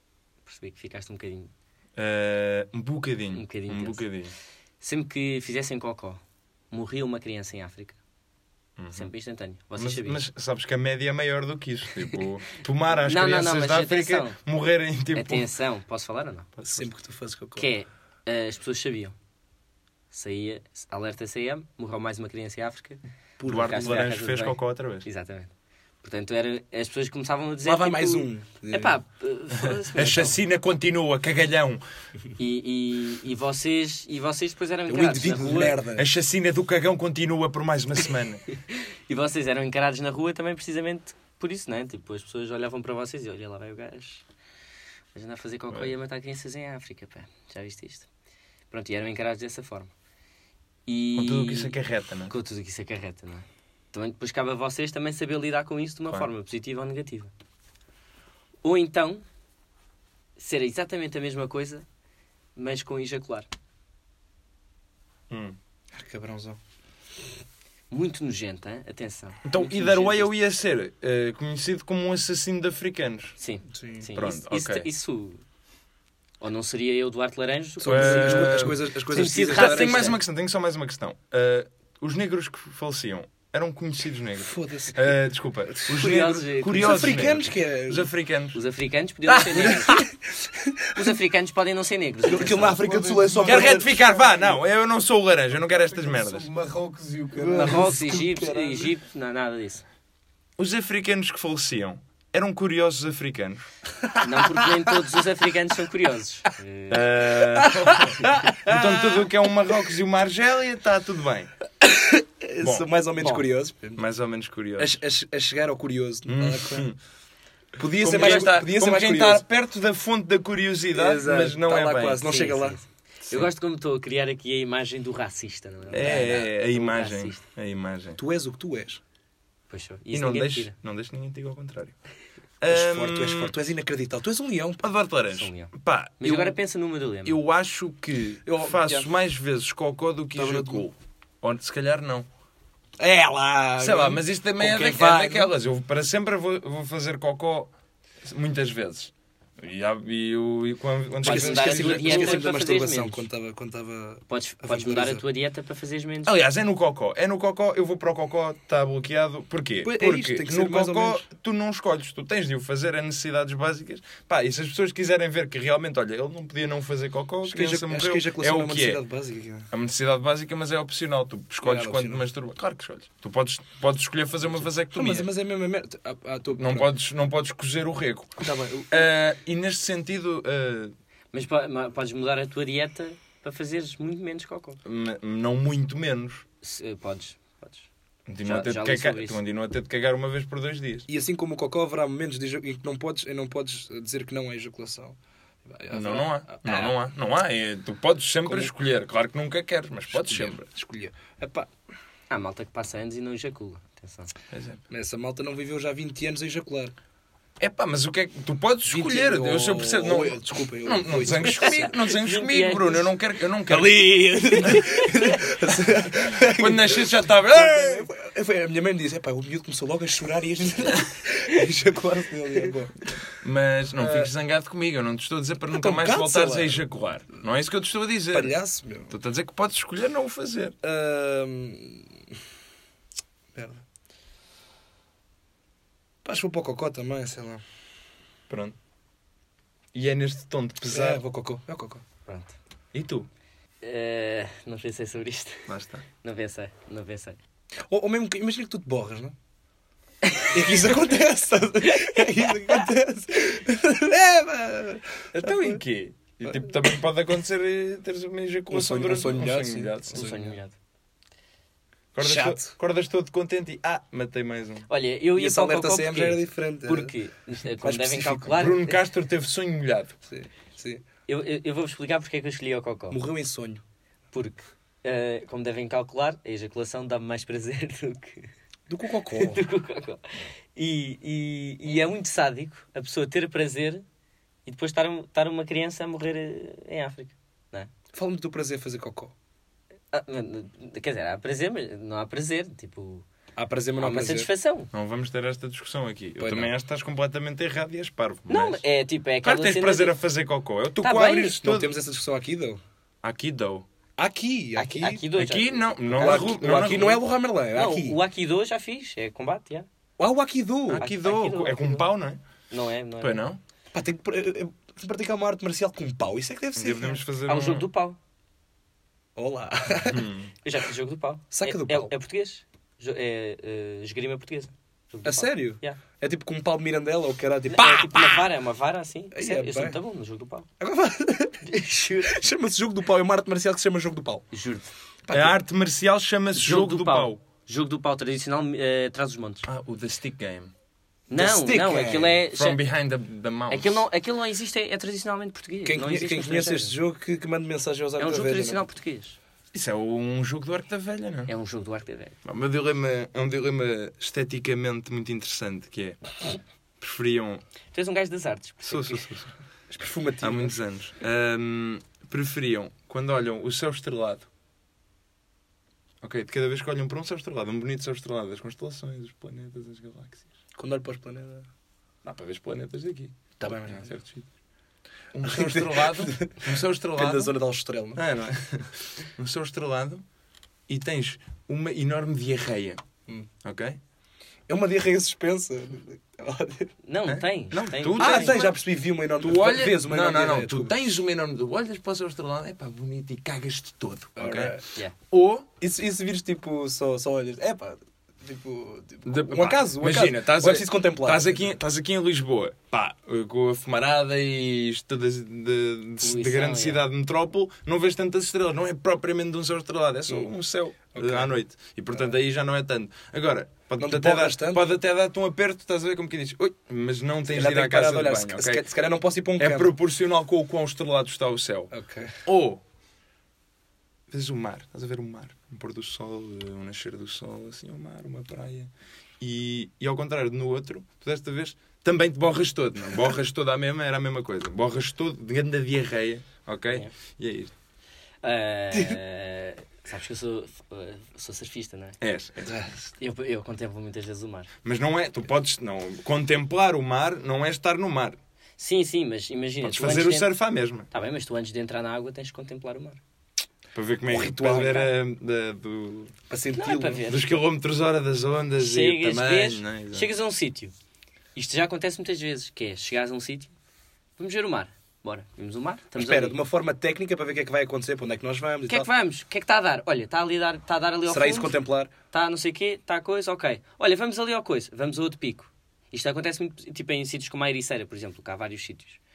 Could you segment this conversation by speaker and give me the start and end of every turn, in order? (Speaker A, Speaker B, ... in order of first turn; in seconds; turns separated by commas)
Speaker A: 0.5-1.5, Speaker B: 2.0-4.3, Speaker A: 3.3-4.1, Speaker A: 4.8-8.0, Speaker B: 8.8-9.1, Speaker A: 8.9-10.2, Speaker B: 9.8-15.5, Speaker A: 13.0-14.4, Speaker A: 15.1-16.5, Speaker B: 16.6-16.9, Speaker C: 16.7-17.7, Speaker A: 17.6-19.1, Speaker A: 20.1-25.5, Speaker C: 23.4-24.0, Speaker B: 23.5-25.1, Speaker A: 26.0-30.4, Speaker C: 27.6-29.0, Speaker B: 29.9-31.8, Speaker A: 32.4-35.8, Speaker C: 34.9-36.1, Speaker B: 36.0-38.4, Speaker A: 38.7-44.2, Speaker A: 45.1-48.1, Speaker A: 48.7-49.9, Speaker A: 50.9-51.8, Speaker B: 51.2-52.3, Speaker A: 52.3-57.3, Speaker A: 58.6-59.2, Speaker A: 60.4-61.9, Speaker A: 62.6-63.5, Speaker B: 65.3-65.6, Speaker C: 65.9-66.6, Speaker A: 67.9-70.3, Speaker B: 69.5-73.4, Speaker A: 73.4-75.4, Speaker C: 73.7-74.1, Speaker B: 74.1-74.9, Speaker A: 76.4-80.2, Speaker C: 77.8-80.1, Speaker B: 77.9-78.8, Speaker B: 79.5-88.6, Speaker C: 84.4-85.1, Speaker C: 85.8-86.2, Speaker A: 85.9-87.3, Speaker C: 86.7-88.1, Speaker A: 88.5-90.1, Speaker C: 89.3-91.1, Speaker A: 90.9-92.8, Speaker C: 92.2-93.9, Speaker D: 92.5-94.6, Speaker B: 93.5-96.5, Speaker D: 95.8-98.0, Speaker C: 97.3-98.9, Speaker A: 97.5-99.8, Speaker B: 100.6-103.7, Speaker C: 104.0-104.9, Speaker A: 104.2-107.0, Speaker B: 106.9-111.5, Speaker C: 107.4-109.3, Speaker C: 111.8-114.1, Speaker B: 112.6-112.9, Speaker B: 114.0-115.0, Speaker C: 114.8-116.9, Speaker B: 116.3-117.0, Speaker C: 117.8-119.4, Speaker B: 118.0-122.3, Speaker C: 120.9-122.8, Speaker A: 122.2-127.4, Speaker B: 125.9-128.2, Speaker C: 126.0-126.4, Speaker C: 128.2-129.0, Speaker A: 129.7-130.7, Speaker B: 130.1-132.0, Speaker B: 132.6-133.5, Speaker C: 132.7-134.9, Speaker B: 134.8-136.6, Speaker A: 135.3-137.4, Speaker B: 137.2-142.3, Speaker C: 138.5-139.1, Speaker C: 140.3-140.9, Speaker C: 143.0-145.5, Speaker B: 143.8-147.7, Speaker B: 148.2-152.4, Speaker A: 151.2-153.3, Speaker C: 151.2-155.2, Speaker A: 154.3-156.3, Speaker B: 156.2-169.0, Speaker C: 159.8-161.3, Speaker C: 167.4-169.7, Speaker B: 169.7-175.3, Speaker C: 171.6-172.2, Speaker C: 174.6-176.9, Speaker B: 176.6-180.9, Speaker C: 178.4-179.1, Speaker A: 181.3-184.8, Speaker B: 184.8-186.4, Speaker A: 186.6-187.9, Speaker B: 188.3-191.1, Speaker A: 188.4-189.4, Speaker C: 191.1-197.0, Speaker B: 195.9-200.7, Speaker C: 198.5-198.7, Speaker C: 200.1-201.7, Speaker A: 202.3-204.3, Speaker B: 204.5-204.8, Speaker C: 204.9-206.9, Speaker B: 207.6-214.0, Speaker C: 208.9-211.8, Speaker A: 211.4-213.1, Speaker C: 213.7-223.2, Speaker A: 214.6-215.4, Speaker B: 216.2-218.1, Speaker B: 223.4-228.6, Speaker C: 224.0-224.3, Speaker C: 225.7-226.8, Speaker C: 228.3-229.1, Speaker B: 229.1-230.8, Speaker C: 230.8-232.2, Speaker C: 233.6-233.8, Speaker C: 236.2-237.6, Speaker B: 238.5-238.8, Speaker B: 239.9-241.2, Speaker C: 240.9-242.0, Speaker A: 242.3-242.6, Speaker B: 242.9-243.3, Speaker A: 243.8-245.7, Speaker B: 245.7-246.1, Speaker A: 246.2-247.4, Speaker C: 247.9-249.3, Speaker A: 250.2-250.6, Speaker C: 250.5-255.8, Speaker A: 252.0-252.5, Speaker B: 255.3-260.3, Speaker C: 258.7-260.5, Speaker A: 260.1-260.8, Speaker B: 262.1-264.9, Speaker C: 262.2-262.7, Speaker A: 264.9-269.0, Speaker C: 265.4-267.1, Speaker C: 267.8-268.7, Speaker B: 268.6-270.2, Speaker C: 270.3-271.0, Speaker A: 271.3-273.2, Speaker C: 273.1-273.8, Speaker A: 274.3-278.5, Speaker C: 278.9-279.6, Speaker A: 279.3-284.0, Speaker A: 284.7-287.9, Speaker C: 288.1-289.3, Speaker A: 290.1-293.3, Speaker C: 293.6-294.5, Speaker A: 294.0-294.9, Speaker B: 294.9-298.8, Speaker C: 296.4-296.7, Speaker A: 298.5-300.2, Speaker B: 299.4-302.0, Speaker A: 301.0-301.6, Speaker C: 301.6-302.8, Speaker B: 303.2-303.9, Speaker C: 304.2-305.2, Speaker A: 304.8-307.2, Speaker B: 305.3-307.2, Speaker C: 306.2-308.2, Speaker A: 307.8-309.9, Speaker C: 310.2-311.1, Speaker B: 310.9-312.4, Speaker A: 311.0-312.1, Speaker A: 312.7-313.4, Speaker B: 313.2-313.6, Speaker C: 313.9-317.2, Speaker B: 316.8-317.9, Speaker A: 317.5-318.2, Speaker C: 319.4-320.3, Speaker B: 320.1-320.5, Speaker A: 320.6-326.0, Speaker C: 321.5-322.1, Speaker C: 325.2-328.5, Speaker A: 327.7-330.7, Speaker C: 329.3-330.0, Speaker C: 330.8-331.7, Speaker A: 331.6-332.4, Speaker C: 332.3-334.5, Speaker A: 334.5-334.9, Speaker C: 335.3-335.6, Speaker B: 335.3-337.4, Speaker A: 336.6-339.7, Speaker B: 339.6-340.7, Speaker A: 341.3-342.8, Speaker C: 341.3-342.4, Speaker B: 342.5-344.1, Speaker A: 343.7-347.0, Speaker C: 345.9-348.9, Speaker A: 348.2-349.4, Speaker B: 349.7-351.5, Speaker A: 351.5-352.4, Speaker B: 352.4-356.3, Speaker B: 357.0-357.6, Speaker A: 357.9-359.3, Speaker B: 358.8-359.5, Speaker C: 359.9-360.8, Speaker B: 360.4-364.5, Speaker B: 366.2-370.5, Speaker C: 370.8-371.7, Speaker B: 372.2-374.5, Speaker C: 373.6-374.1, Speaker B: 375.3-377.5, Speaker C: 375.4-378.2, Speaker B: 378.1-380.2, Speaker B: 380.9-383.0, Speaker B: 383.6-384.0, Speaker C: 384.7-386.9, Speaker A: 387.0-388.6, Speaker B: 387.3-388.8, Speaker C: 388.2-390.9, Speaker B: 389.4-394.8, Speaker C: 394.4-394.9, Speaker B: 395.3-395.7, Speaker C: 395.8-401.7, Speaker B: 399.3-418.8, Speaker A: 406.2-407.0, Speaker C: 411.1-411.5, Speaker C: 414.0-414.8, Speaker C: 417.5-419.9, Speaker B: 419.6-421.9, Speaker C: 421.9-422.4, Speaker B: 422.4-422.8, Speaker B: 424.3-437.7, Speaker A: 438.4-442.2, Speaker B: 442.2-443.1, Speaker A: 443.2-444.7, Speaker B: 444.8-448.4, Speaker A: 448.8-450.5, Speaker B: 449.8-451.1, Speaker A: 451.1-453.2, Speaker B: 453.9-456.4, Speaker C: 454.3-455.1, Speaker C: 456.5-457.2, Speaker A: 456.8-457.5, Speaker B: 457.3-460.3, Speaker A: 458.8-460.9, Speaker A: 461.6-463.7, Speaker A: 464.4-466.6, Speaker C: 466.1-469.1, Speaker A: 468.9-471.8, Speaker C: 471.3-472.1, Speaker A: 472.3-479.2